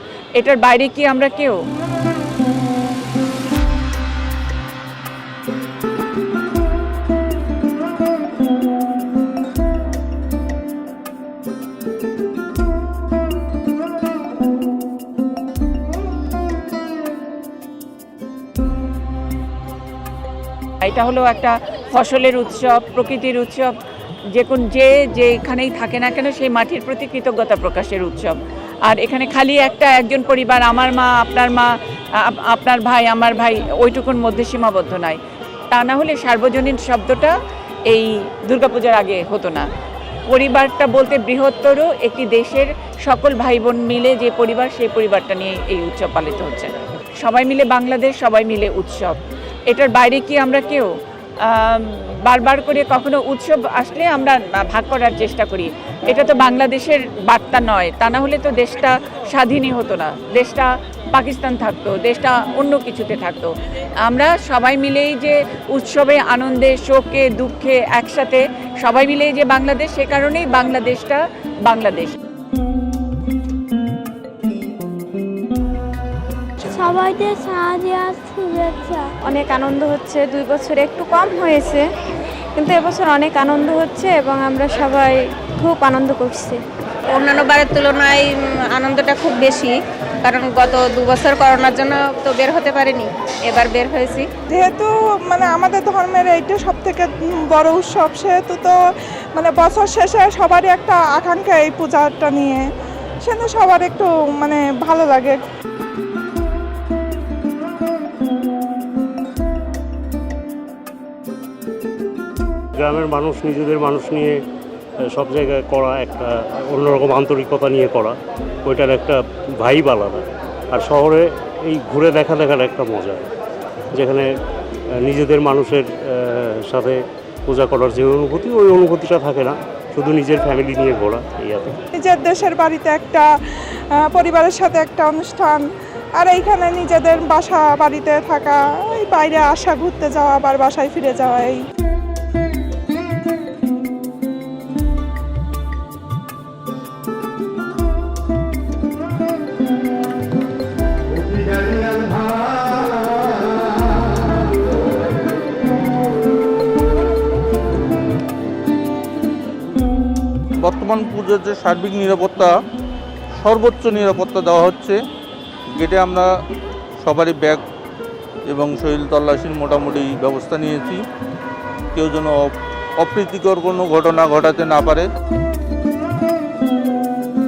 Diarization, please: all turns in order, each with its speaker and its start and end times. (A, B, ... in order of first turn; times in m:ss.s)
0:00.4-0:01.6 A
0:20.8-0:23.7 A
0:24.3-0:35.2 A
0:35.7-0:37.4 A
0:37.9-0:39.7 A
0:40.3-1:12.2 A
1:16.7-1:19.1 B
1:19.2-1:21.8 C
1:22.6-1:26.6 C
1:27.1-1:34.3 D
1:34.5-1:38.7 E
1:39.4-1:42.6 E
1:43.2-1:45.4 E
1:52.8-1:54.4 F
1:55.1-2:03.3 F
2:03.9-2:04.3 F
2:05.0-2:11.8 F
2:11.9-2:13.3 E
2:13.9-2:15.6 E
2:16.2-2:21.6 E
2:40.6-2:42.5 G
2:43.4-2:45.0 G
2:45.7-2:46.3 G
2:47.0-2:47.6 G
2:48.4-2:51.0 G
2:51.9-2:55.1 G